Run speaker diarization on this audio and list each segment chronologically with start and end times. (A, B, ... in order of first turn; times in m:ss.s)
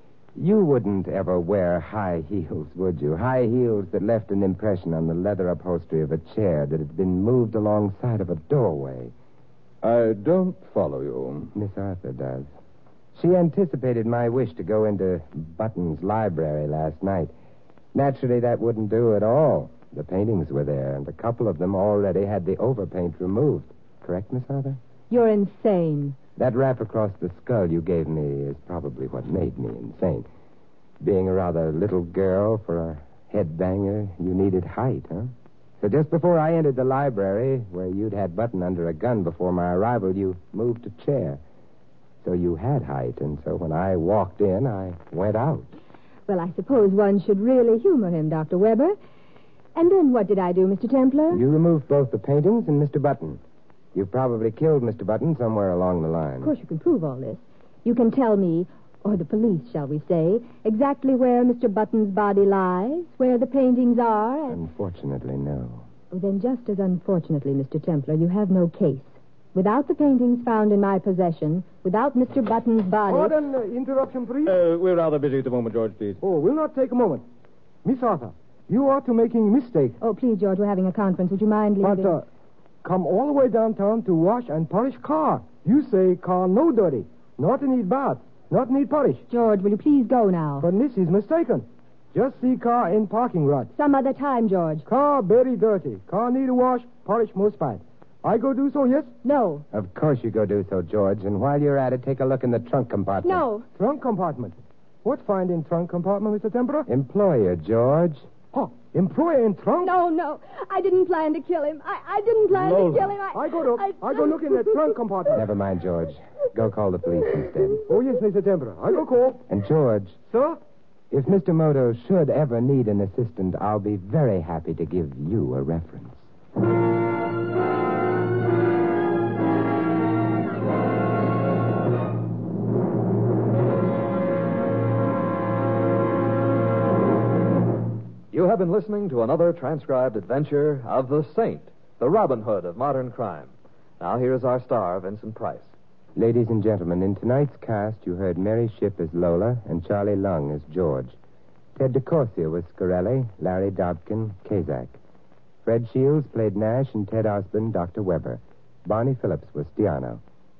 0:00.4-0:09.1 A
0:09.8-0:11.5 B
0:11.5-0:12.5 A
0:13.2-0:17.3 A
0:17.9-0:24.8 A
0:25.1-0:26.2 C
0:26.4-0:30.3 A
0:31.0-0:41.4 A
0:42.2-0:45.7 A
0:46.3-0:49.0 C
0:49.8-0:51.4 C
0:51.3-0:53.4 A
0:53.9-0:56.5 A
0:56.4-1:04.6 C
1:04.5-1:05.8 A
1:06.1-1:13.4 C
1:13.1-1:14.6 D
1:14.5-1:16.2 B
1:16.2-1:17.2 D
1:17.8-1:20.0 D
1:20.0-1:22.2 C
1:21.8-1:22.3 D
1:22.8-1:29.2 D
1:29.3-1:30.7 C
1:30.6-1:33.7 D
1:33.7-1:34.9 C
1:34.9-1:39.1 D
1:39.2-1:39.6 C
1:39.7-1:43.5 A
1:43.2-1:43.7 C
1:43.8-1:46.9 D
1:46.9-1:48.3 A
1:48.5-1:49.9 D
1:49.8-1:55.0 C
1:53.3-1:55.4 D
1:55.3-1:57.8 A
1:57.9-1:59.4 D
1:59.5-2:00.2 A
2:00.3-2:00.6 D
2:01.1-2:06.3 A
2:18.3-2:25.7 E
2:26.2-2:31.2 A
2:31.8-2:35.0 A
2:35.6-2:40.2 A